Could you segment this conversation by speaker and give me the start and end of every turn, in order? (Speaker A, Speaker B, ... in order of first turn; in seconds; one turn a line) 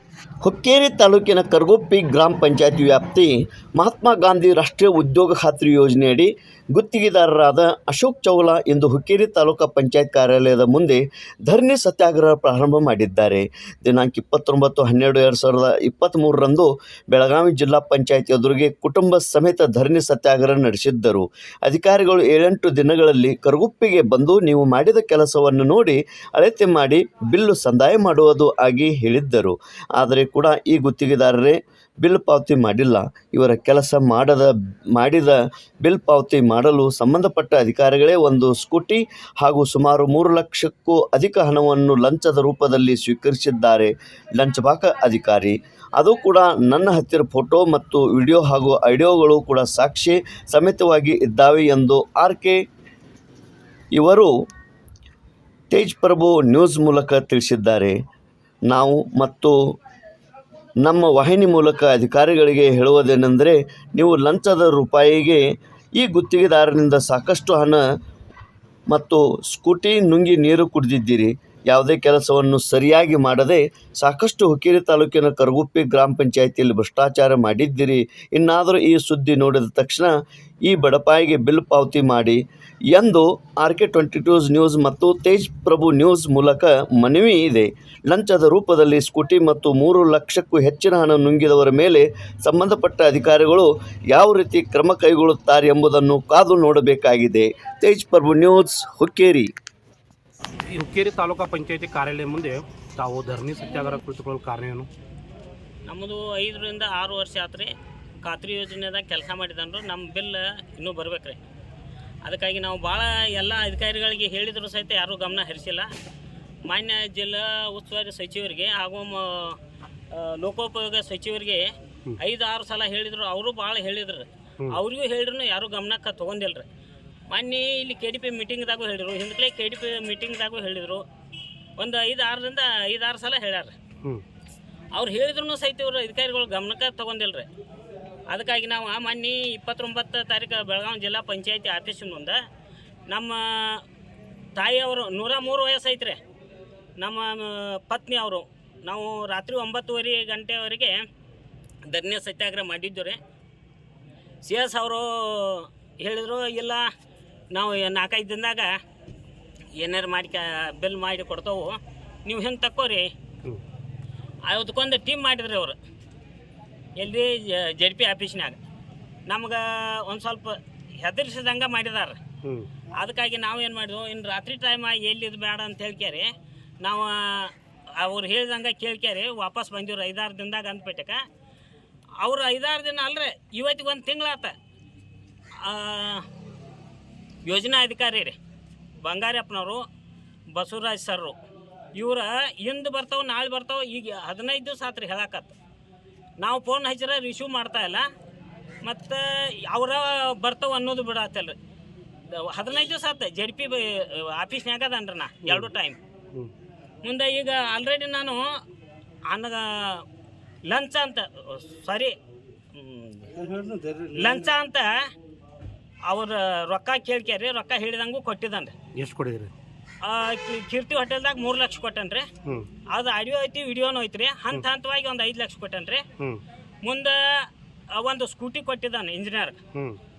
Speaker A: 0.4-52.6
Speaker A: 53.9-54.3
Speaker A: 55.7-58.0
Speaker A: 58.7-59.5
Speaker A: 60.8-67.8
Speaker A: 68.9-80.1
Speaker A: 80.6-99.5
Speaker B: 100.7-104.9
Speaker C: 105.8-111.4
Speaker C: 112.2-115.9
Speaker C: 116.6-119.6
Speaker C: 120.1-126.7
Speaker C: 127.3-131.0
Speaker C: 131.8-133.7
Speaker C: 134.9-137.5
Speaker C: 138.3-142.4
Speaker C: 143.1-143.8
Speaker C: 144.5-146.2
Speaker C: 147.0-151.0
Speaker C: 151.8-153.2
Speaker C: 154.4-156.9
Speaker C: 157.5-158.8
Speaker C: 159.7-163.1
Speaker C: 164.4-165.8
Speaker C: 166.9-168.6
Speaker C: 169.2-172.2
Speaker B: 172.4-172.7
Speaker C: 172.9-181.2
Speaker C: 182.2-184.5
Speaker C: 185.6-186.2
Speaker C: 187.4-188.4
Speaker C: 189.0-189.8
Speaker C: 190.5-191.4
Speaker C: 191.9-195.5
Speaker C: 196.4-198.1
Speaker C: 198.8-201.5
Speaker C: 202.3-206.0
Speaker B: 205.4-205.7
Speaker C: 207.0-208.6
Speaker C: 209.3-210.0
Speaker C: 210.7-212.1
Speaker C: 212.7-213.3
Speaker B: 213.4-214.4
Speaker C: 214.1-215.1
Speaker C: 216.0-218.7
Speaker B: 218.9-219.5
Speaker C: 220.0-222.3
Speaker C: 222.8-226.0
Speaker C: 226.8-229.6
Speaker B: 229.7-230.0